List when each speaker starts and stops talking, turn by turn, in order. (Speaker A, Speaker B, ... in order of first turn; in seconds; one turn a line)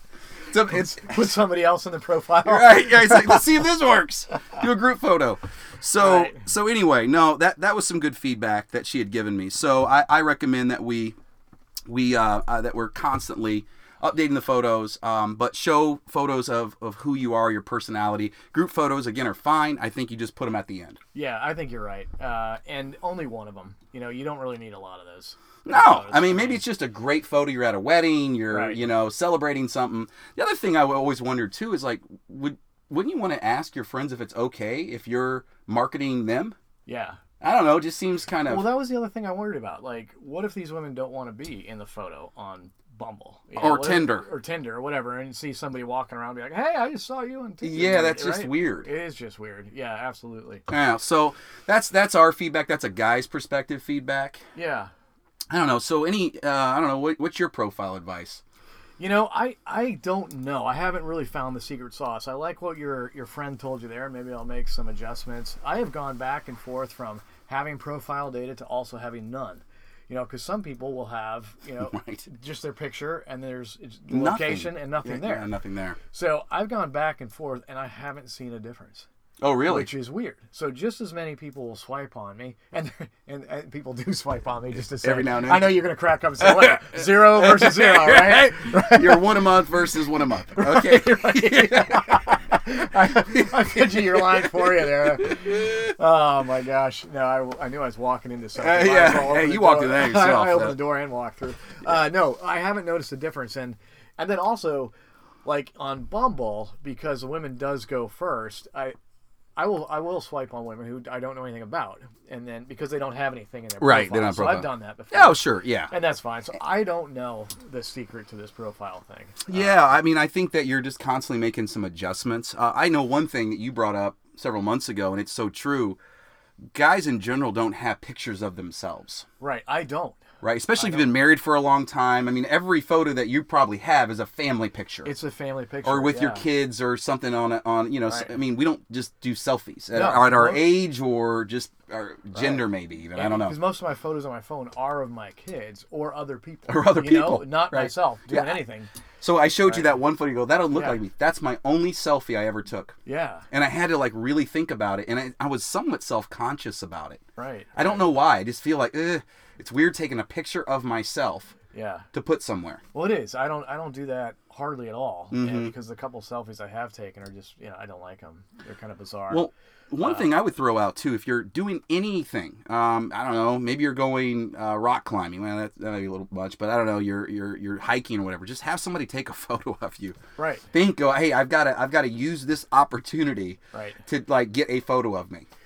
Speaker A: 0.5-1.4
Speaker B: 0.6-3.5
Speaker A: 2.4-11.2
Speaker B: 5.9-6.5
Speaker A: 11.9-21.0
Speaker B: 21.1-26.6
Speaker A: 25.6-36.5
Speaker B: 28.5-28.9
Speaker B: 36.9-37.2
Speaker A: 37.4-38.7
Speaker B: 38.5-50.6
Speaker A: 43.5-44.3
Speaker A: 47.6-48.9
Speaker A: 50.7-54.4
Speaker B: 54.5-54.9
Speaker A: 55.5-58.4
Speaker B: 59.0-79.1
Speaker A: 71.8-72.2
Speaker A: 74.1-76.0
Speaker A: 79.4-79.9
Speaker B: 79.7-104.9
Speaker A: 85.0-85.8
Speaker A: 86.4-92.2
Speaker A: 93.3-95.9
Speaker A: 98.5-100.9
Speaker B: 105.4-108.9
Speaker B: 109.5-119.9
Speaker A: 113.8-115.9
Speaker A: 119.5-126.0
Speaker A: 126.7-129.2
Speaker B: 129.4-130.2
Speaker A: 130.4-135.1
Speaker B: 130.8-131.2
Speaker B: 135.0-136.5
Speaker A: 135.8-143.6
Speaker B: 138.1-138.4
Speaker B: 139.9-140.8
Speaker B: 142.3-148.9
Speaker A: 146.7-148.6
Speaker A: 149.2-152.9
Speaker B: 149.6-150.1
Speaker B: 150.7-151.0
Speaker B: 153.1-153.5
Speaker A: 153.5-157.2
Speaker B: 157.3-158.2
Speaker A: 157.7-161.6
Speaker B: 161.7-162.1
Speaker A: 162.1-162.8
Speaker B: 162.9-169.4
Speaker A: 165.3-165.7
Speaker A: 169.3-180.2
Speaker B: 170.0-170.3
Speaker B: 180.4-180.7
Speaker A: 180.7-185.5
Speaker B: 183.7-184.0